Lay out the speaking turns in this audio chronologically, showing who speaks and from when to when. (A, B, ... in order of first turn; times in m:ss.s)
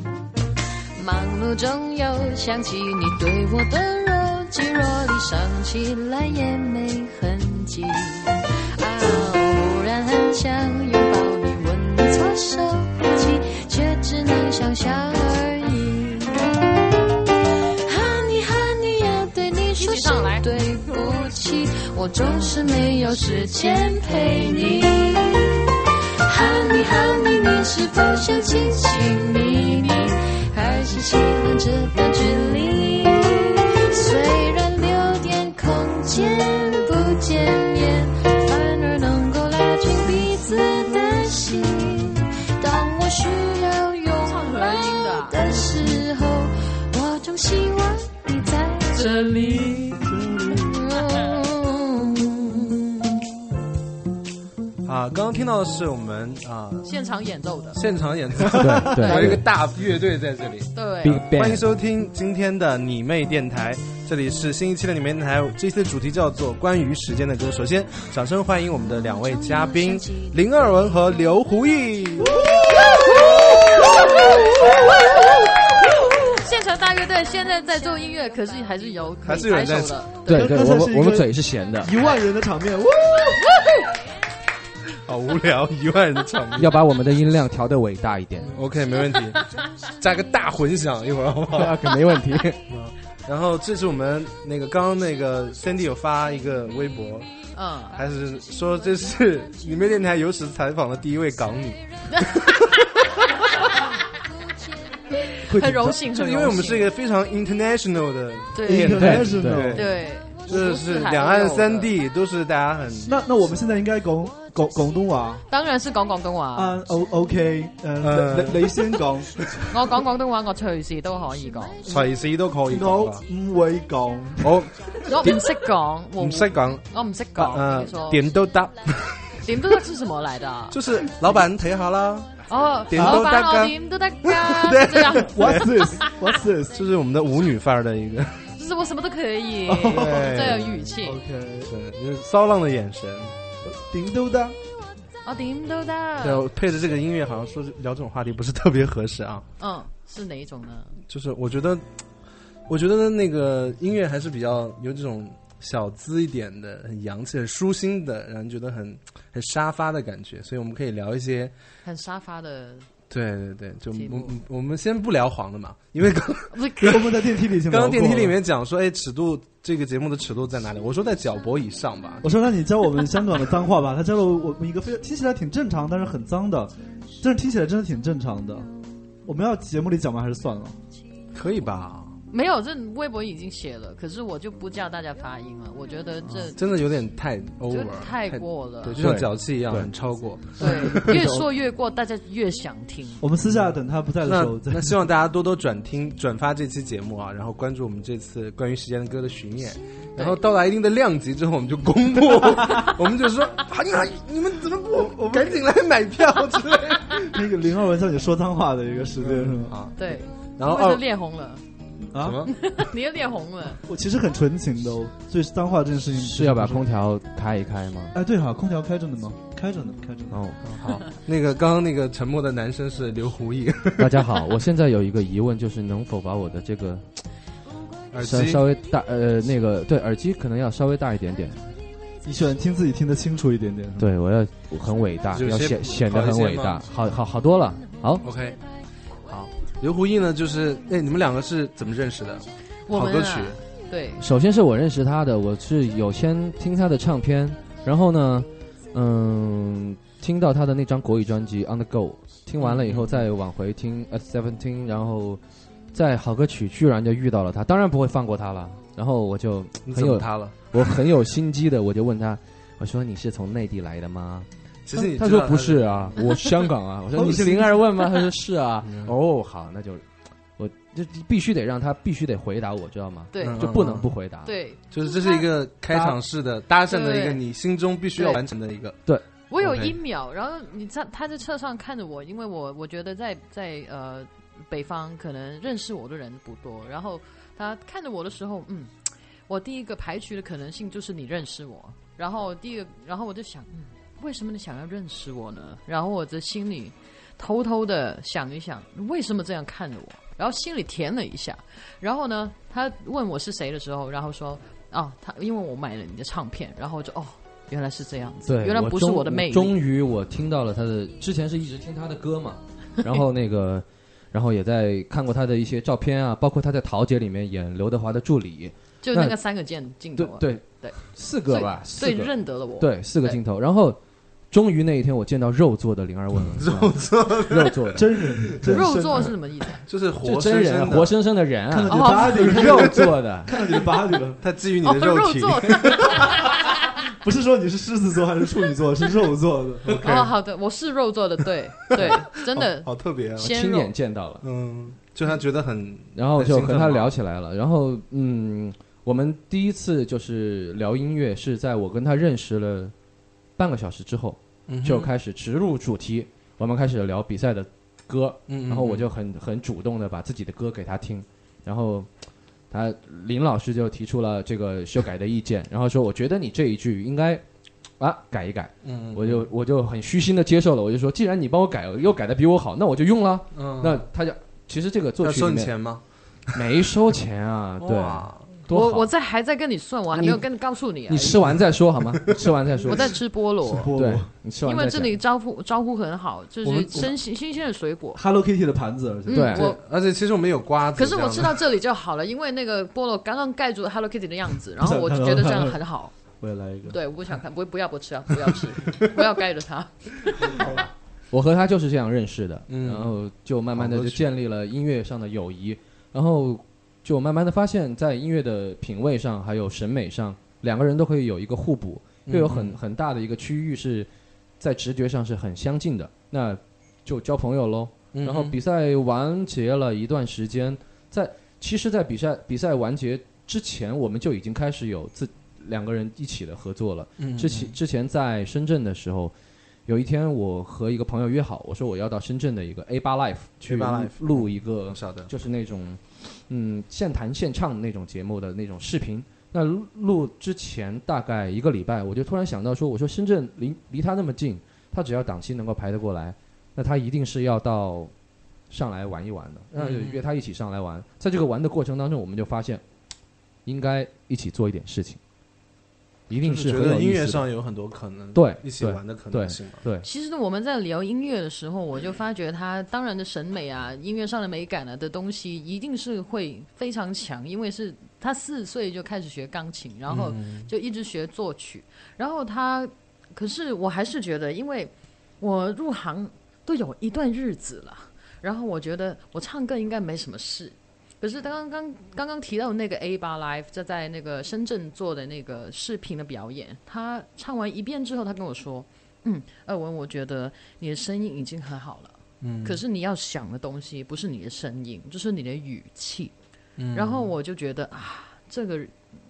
0:01.0-0:16.5 A
0:17.8-0:25.7 A
0:19.8-0:20.4 B
0:26.3-0:49.8 A
0:44.2-0:45.4 B
0:49.0-0:49.7 B
0:50.2-0:50.5 C
0:50.5-0:53.2 A
0:54.8-0:56.9 D
0:56.8-0:57.8 B
0:57.7-1:12.5 D
0:58.5-0:59.4 E
0:59.0-0:59.4 B
1:00.8-1:01.2 B
1:01.0-1:01.7 E
1:09.2-1:10.4 A
1:12.2-1:15.3 C
1:12.8-1:15.2 B
1:12.9-1:14.7 A
1:16.3-1:20.2 B
1:17.7-1:17.9 A
1:19.3-1:20.0 D
1:20.3-1:21.9 E
1:20.3-1:23.4 C
1:25.0-1:26.8 D
1:26.6-1:28.6 E
1:28.5-1:31.9 D
1:31.5-1:32.6 E
1:32.7-1:37.3 D
1:37.6-1:38.0 B
1:37.9-1:42.7 D
1:42.1-1:42.4 B
1:45.5-1:46.9 B
1:45.5-1:46.1 C
1:46.0-1:53.1 D
1:48.5-1:51.9 B
1:48.7-1:50.0 C
1:49.0-1:49.7 E
1:53.0-1:55.4 C
1:55.5-1:56.8 B
1:56.6-1:59.5 C
1:58.0-1:58.8 D
1:59.7-2:01.8 B
2:01.8-2:03.2 D
2:02.7-2:04.6 C
2:04.4-2:05.4 D
2:05.0-2:08.2 B
2:06.2-2:06.8 D
2:07.4-2:09.4 D
2:09.4-2:10.8 B
2:10.7-2:15.7 D
2:12.5-2:15.4 B
2:13.0-2:13.3 C
2:15.3-2:16.8 C
2:16.7-2:18.5 D
2:18.6-2:21.2 B
2:19.7-2:21.7 C
2:19.9-2:20.8 D
2:21.7-2:23.3 D
2:23.6-2:24.6 C
2:25.2-2:26.4 B
2:26.2-2:29.5 D
2:29.6-2:31.0 B
2:31.1-2:31.8 D
2:32.7-2:41.5 D
2:41.8-2:42.9 B
2:43.1-2:52.4 D
2:43.9-2:44.4 B
2:46.5-2:47.0 B
2:46.8-2:48.4 C
2:52.2-2:58.7 C
2:59.3-3:00.8 C
3:01.3-3:02.1 D
3:02.3-3:06.6 B
3:06.5-3:11.2 D
3:07.7-3:09.0 B
3:09.0-3:09.9 E
3:10.6-3:11.3 C
3:10.6-3:13.2 B
3:11.0-3:11.4 E
3:13.2-3:15.0 C
3:14.2-3:27.3 D
3:24.9-3:25.6 C
3:27.2-3:29.8 C
3:29.2-3:31.0 D
3:30.0-3:31.6 B
3:32.1-3:32.5 C
3:32.2-3:32.5 D
3:32.5-3:33.8 B
3:33.8-3:36.9 C
3:36.2-3:38.2 E
3:38.1-3:40.4 C
3:40.3-3:41.0 E
3:40.7-3:44.3 D
3:44.0-3:47.1 E
3:48.1-3:48.6 D
3:48.2-3:51.6 E
3:52.2-3:54.1 C
3:54.0-3:58.2 E
3:55.3-3:56.8 D
3:58.2-3:58.6 D
3:59.8-4:03.6 D
4:02.9-4:04.2 B
4:04.2-4:34.5 E
4:12.6-4:13.3 D
4:19.9-4:20.7 D
4:24.9-4:26.2 D
4:27.1-4:27.8 C
4:28.8-4:29.1 D
4:33.3-4:33.6 B
4:33.4-4:34.1 D
4:34.4-4:35.5 B
4:34.9-4:39.0 D
4:35.9-4:36.2 E
4:36.9-4:37.4 B
4:38.2-4:38.4 B
4:39.5-5:09.8 B
4:39.6-4:39.9 D
5:08.5-5:19.4 E
5:19.0-5:23.4 B
5:20.2-5:24.0 E
5:24.5-5:28.1 E
5:26.5-5:28.0 D
5:28.0-5:29.3 C
5:28.7-5:29.8 B
5:29.8-5:31.2 D
5:30.2-5:33.6 E
5:31.7-5:34.4 C
5:31.9-5:32.4 B
5:32.5-5:32.9 D
5:34.4-5:36.3 D
5:34.8-5:36.6 B
5:37.0-5:40.0 C
5:39.9-5:40.3 D
5:39.9-5:43.9 B
5:42.0-5:43.5 D
5:43.4-5:44.4 E
5:44.4-5:47.1 D
5:46.2-5:52.9 E
5:53.6-6:02.1 E
5:54.7-5:55.1 D
5:58.5-5:59.1 D
6:02.7-6:07.4 E
6:08.0-6:15.9 E
6:08.8-6:09.5 D
6:13.6-6:14.1 D
6:15.2-6:16.0 D
6:16.4-6:19.1 E
6:17.8-6:18.5 D
6:18.7-6:21.4 B
6:20.2-6:20.4 E
6:21.1-6:23.3 E
6:22.8-6:23.9 B
6:23.6-6:24.3 C
6:24.0-6:25.2 E
6:24.6-6:28.2 B
6:26.6-6:27.1 D
6:28.2-6:29.6 C
6:29.3-6:29.8 B
6:29.3-6:29.6 E
6:29.6-6:31.6 D
6:31.0-6:36.2 B
6:34.8-6:35.8 C
6:36.4-6:37.0 C
6:36.9-6:40.7 B
6:41.3-6:54.1 E
6:42.7-6:43.2 D
6:43.7-6:44.3 D
6:52.3-6:52.8 D
6:54.6-7:09.3 E
6:58.1-6:58.6 D
7:07.2-7:07.8 D
7:09.9-7:28.1 E
7:13.6-7:15.3 D
7:28.7-7:32.8 E
7:29.7-7:30.3 D
7:33.6-7:35.2 E
7:36.3-7:37.5 E
7:36.4-7:39.8 D
7:38.4-7:40.1 E
7:40.0-8:16.3 B
7:50.1-7:50.7 D
8:12.4-8:12.8 D
8:16.8-8:17.3 D
8:16.9-8:19.0 B